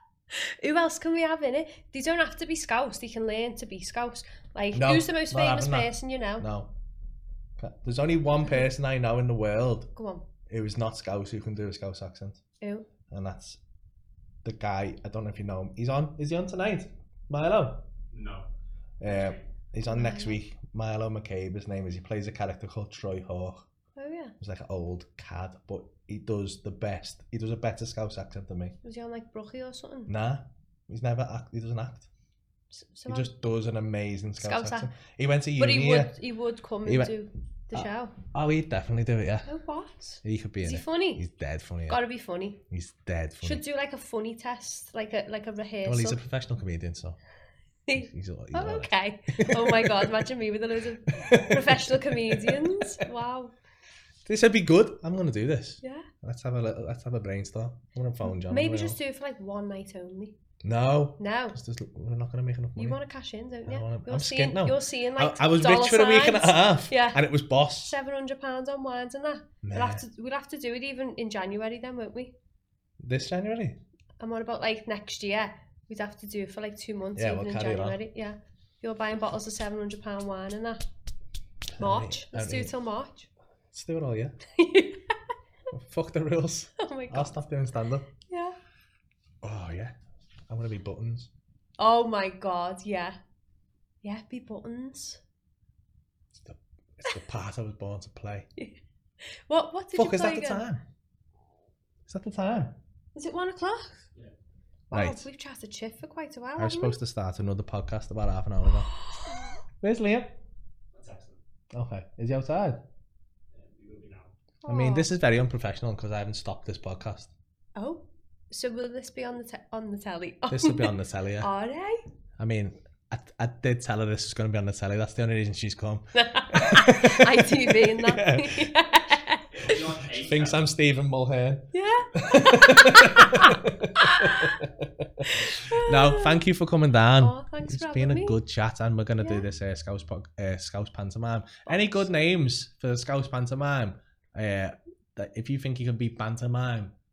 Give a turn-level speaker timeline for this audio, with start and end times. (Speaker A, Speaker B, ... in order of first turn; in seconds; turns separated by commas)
Speaker A: 0.3-6.5, Speaker B: 4.7-6.7, Speaker B: 7.6-9.9, Speaker A: 10.0-10.3, Speaker B: 10.5-12.4, Speaker A: 12.6-12.9, Speaker B: 13.1-13.6, Speaker B: 14.4-17.9, Speaker C: 18.1-18.5, Speaker B: 19.0-23.7, Speaker C: 19.1-19.4, Speaker A: 19.9-20.4, Speaker A: 24.0-24.4, Speaker B: 24.4-28.8, Speaker A: 28.8-30.1, Speaker B: 30.1-32.1, Speaker A: 32.7-33.4, Speaker B: 33.1-36.1, Speaker A: 34.4-34.9, Speaker A: 35.6-38.2, Speaker B: 36.9-37.1, Speaker B: 37.7-39.5, Speaker A: 39.5-41.3, Speaker B: 40.2-42.0, Speaker A: 41.9-42.6, Speaker B: 42.7-43.6, Speaker A: 43.4-46.2, Speaker B: 45.9-47.2, Speaker A: 47.9-53.5, Speaker B: 48.0-50.2, Speaker B: 51.1-53.0, Speaker B: 54.2-59.0, Speaker A: 55.8-56.1, Speaker A: 58.3-60.4, Speaker B: 60.6-63.0, Speaker A: 61.2-61.6, Speaker A: 62.8-67.2, Speaker B: 63.7-68.0, Speaker A: 67.8-72.3, Speaker B: 69.6-70.0, Speaker B: 73.0-73.8, Speaker A: 74.2-80.8, Speaker B: 77.2-78.0, Speaker B: 81.8-82.7, Speaker A: 81.8-83.3, Speaker B: 83.7-84.3, Speaker A: 84.5-85.2, Speaker B: 85.7-88.1, Speaker A: 86.8-87.4, Speaker A: 88.3-88.6, Speaker B: 89.4-90.0, Speaker B: 90.5-91.3, Speaker A: 91.8-93.2, Speaker A: 94.0-95.2, Speaker B: 96.3-98.5, Speaker A: 99.5-100.7, Speaker B: 99.9-100.8, Speaker B: 102.1-102.8, Speaker A: 103.2-104.0, Speaker B: 104.9-105.3, Speaker A: 104.9-107.0, Speaker B: 106.6-108.9, Speaker B: 109.8-110.4, Speaker C: 110.9-111.4, Speaker B: 111.7-112.8, Speaker C: 113.5-114.3, Speaker A: 114.6-115.1, Speaker B: 114.7-117.3, Speaker A: 117.8-122.0, Speaker B: 120.5-121.5, Speaker B: 122.4-128.7, Speaker A: 126.2-129.8, Speaker C: 129.5-130.7, Speaker B: 129.7-146.9, Speaker A: 131.7-134.6, Speaker A: 135.3-136.4, Speaker A: 137.2-138.4, Speaker A: 141.7-142.1